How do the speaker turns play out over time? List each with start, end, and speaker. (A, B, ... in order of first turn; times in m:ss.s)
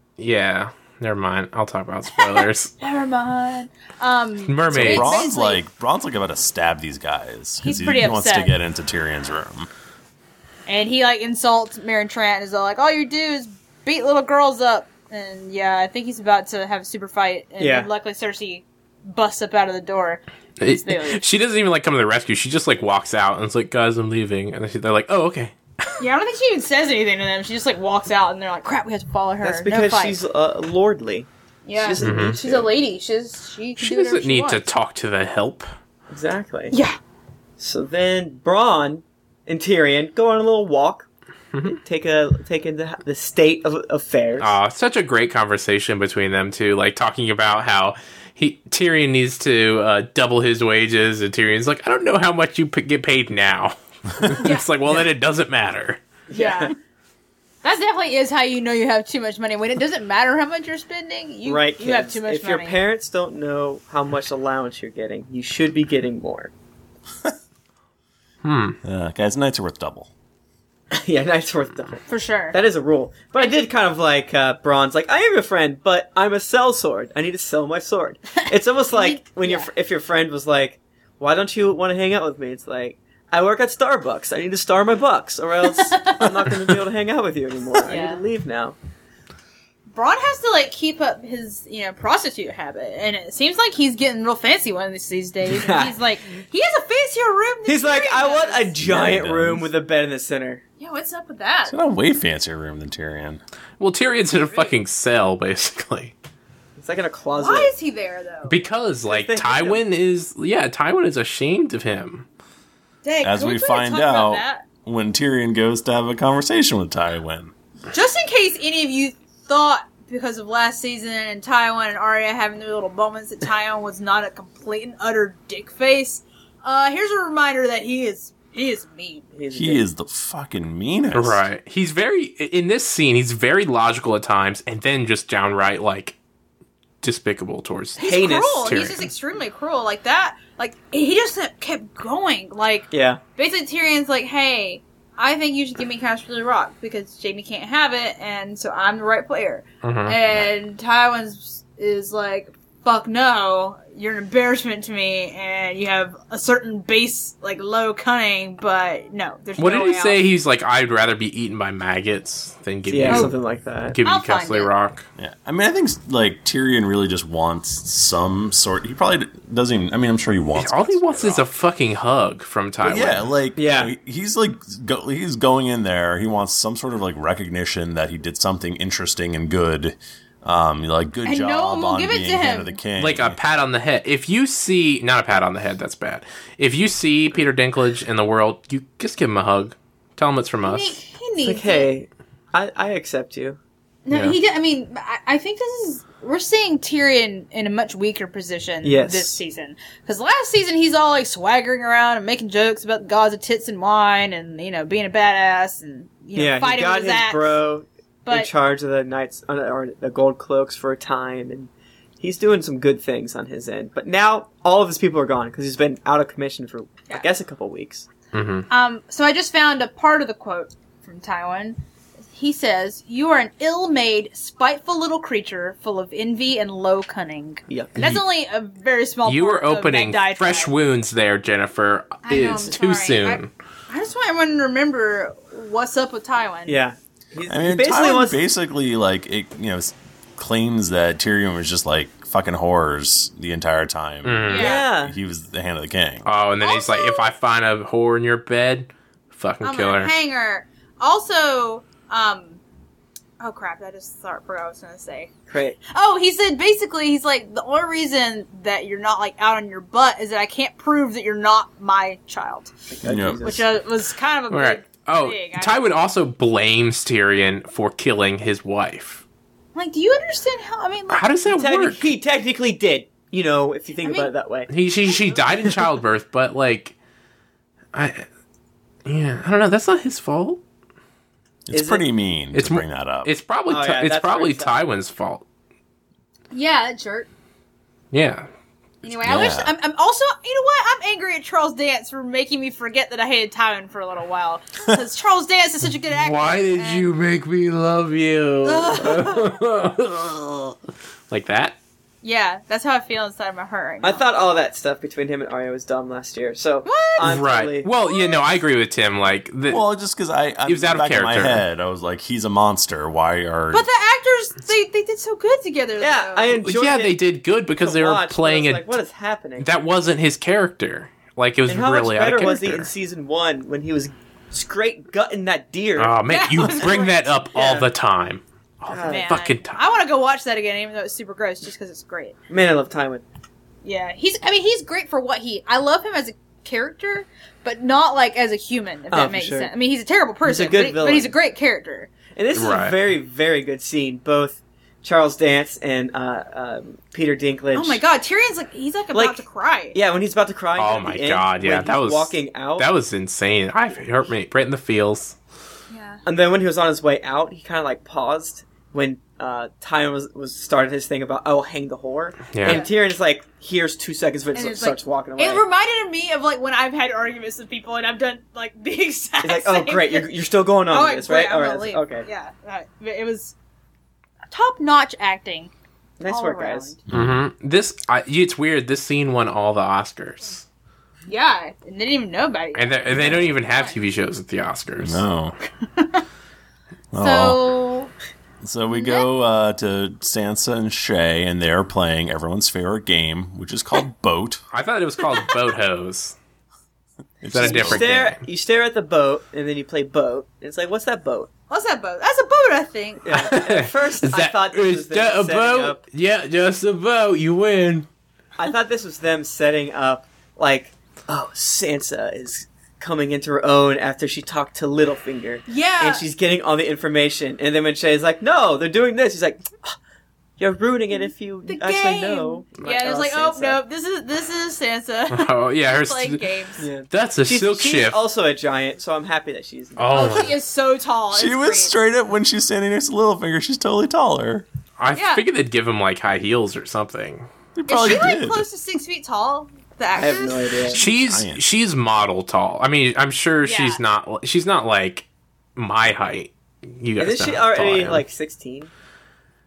0:00.2-0:02.7 A
0:02.1-0:05.6 B
0:04.5-0:05.3 A
0:04.7-0:09.7 C
0:07.6-0:08.6 B
0:10.7-0:21.2 B
0:17.6-0:17.9 D
0:20.6-0:26.0 A
0:26.0-0:30.2 B
0:29.4-0:32.7 D
0:31.7-0:34.7 B
0:32.0-0:32.4 A
0:33.8-0:35.7 A
0:36.1-0:36.7 D
0:36.7-0:37.0 B
0:37.6-0:41.1 D
0:41.6-0:44.6 D
0:44.4-0:56.0 A
0:54.4-0:54.7 B
0:56.3-0:56.7 D
0:56.3-0:56.7 B
0:57.6-1:02.8 B
1:01.4-1:06.5 D
1:08.4-1:08.8 A
1:08.8-1:10.1 C
1:10.9-1:28.8 D
1:12.1-1:12.6 B
1:18.9-1:19.7 B
1:25.7-1:26.4 B
1:27.8-1:28.2 B
1:29.9-1:38.8 B
1:35.4-1:36.0 D
1:37.7-1:40.6 D
1:38.8-1:39.7 C
1:40.8-1:41.8 B
1:41.7-1:43.4 C
1:43.8-1:46.2 A
1:46.8-1:47.7 D
1:47.3-1:48.6 B
1:48.5-1:52.3 A
1:49.1-1:49.8 D
1:53.0-1:54.6 B
1:53.2-1:57.5 C
1:57.9-2:09.3 B
2:09.3-2:09.8 D
2:09.5-2:11.4 C
2:11.1-2:16.2 A
2:17.0-2:19.1 A
2:18.0-2:40.2 B
2:18.0-2:18.8 D
2:22.9-2:23.2 D
2:29.8-2:30.2 A
2:39.6-2:43.4 A
2:42.9-2:44.0 D
2:43.1-2:43.3 B
2:43.9-2:45.1 A
2:44.0-2:44.7 B
2:45.2-2:51.4 C
2:50.6-2:53.3 A
2:52.8-3:03.4 C
2:53.6-2:53.9 D
3:01.2-3:02.8 B
3:03.0-3:11.0 A
3:10.6-3:11.9 B
3:11.4-3:13.6 D
3:14.0-3:27.6 B
3:14.1-3:14.4 A
3:18.8-3:19.4 D
3:26.4-3:38.1 D
3:28.2-3:28.5 B
3:38.3-3:38.7 A
3:38.7-3:41.8 B
3:42.3-3:50.7 B
3:47.7-3:48.1 D
3:49.3-3:53.5 A
3:52.2-3:56.8 B
3:52.4-3:52.7 D
3:56.7-3:58.4 D
3:57.5-4:06.3 C
4:04.2-4:04.8 A
4:04.5-4:04.9 B
4:04.6-4:05.2 D
4:06.2-4:10.1 A
4:06.6-4:07.3 B
4:09.6-4:12.6 B
4:13.4-4:15.3 B
4:15.5-4:15.8 D
4:15.9-4:22.7 B
4:22.9-4:23.7 D
4:23.0-4:23.5 C
4:23.4-4:25.8 B
4:24.5-4:29.2 A
4:29.8-4:31.3 B
4:31.1-4:32.1 A
4:31.5-4:34.7 D
4:34.0-4:34.3 B
4:34.7-4:37.0 A
4:35.3-4:35.7 B
4:37.9-4:38.3 A
4:39.0-4:40.6 A
4:41.7-4:43.3 C
4:41.7-4:42.0 D
4:42.5-4:45.4 A
4:43.7-4:44.8 D
4:46.5-4:47.3 B
4:48.1-4:48.5 A
4:49.0-4:57.1 B
4:49.2-4:49.7 C
4:56.1-5:00.8 A
4:58.6-4:59.6 B
5:01.3-5:01.8 A
5:02.2-5:04.2 B
5:04.0-5:07.9 D
5:06.8-5:07.3 B
5:07.2-5:09.8 A
5:08.1-5:08.4 B
5:09.7-5:13.9 C
5:10.7-5:11.6 A
5:13.7-5:16.5 B
5:16.0-5:17.2 D
5:16.5-5:19.0 A
5:17.8-5:19.7 D
5:19.6-5:22.9 A
5:21.7-5:26.9 D
5:26.0-5:29.8 A
5:26.3-5:27.2 B
5:27.5-5:27.9 D
5:28.9-5:29.3 D
5:29.1-5:32.4 B
5:32.5-5:33.2 D
5:33.8-5:42.1 B
5:39.1-5:39.7 D
5:40.4-5:41.3 D
5:42.3-5:48.0 D
5:42.6-5:43.0 A
5:47.7-5:50.0 B
5:49.1-5:49.4 D
5:49.9-5:52.9 D
5:50.8-5:55.4 A
5:55.9-5:56.2 B
5:56.2-6:05.6 D
6:02.5-6:02.8 A
6:02.6-6:02.9 B
6:04.6-6:10.3 B
6:09.4-6:12.3 D
6:10.9-6:13.5 B
6:14.5-6:15.7 B
6:16.2-6:16.9 D
6:16.3-6:17.0 B
6:17.1-6:17.4 C
6:17.1-6:20.6 A
6:21.3-6:24.0 B
6:22.8-6:25.2 A
6:23.1-6:23.6 C
6:25.0-6:25.6 C
6:25.8-6:26.2 B
6:27.1-6:27.6 C
6:27.2-6:28.1 B
6:28.6-6:34.6 C
6:28.9-6:29.3 B
6:34.7-6:36.4 A
6:35.3-6:35.5 B
6:37.4-6:38.3 C
6:37.5-6:38.4 A
6:37.6-6:41.5 D
6:41.7-6:43.4 B
6:43.2-6:46.0 D
6:43.3-6:48.1 A
6:48.6-7:00.0 D
6:55.7-6:56.3 B
7:00.6-7:03.8 D
7:01.1-7:06.9 B
7:05.3-7:06.4 A
7:06.8-7:10.5 D
7:07.1-7:08.2 A
7:10.0-7:10.6 A
7:10.1-7:12.0 B
7:11.3-7:14.7 C
7:15.0-7:17.5 A
7:15.1-7:15.4 B
7:17.8-7:18.6 C
7:17.9-7:20.8 B
7:20.2-7:21.0 D
7:20.9-7:28.2 A
7:20.9-7:21.6 C
7:23.6-7:24.0 B
7:27.2-7:28.9 D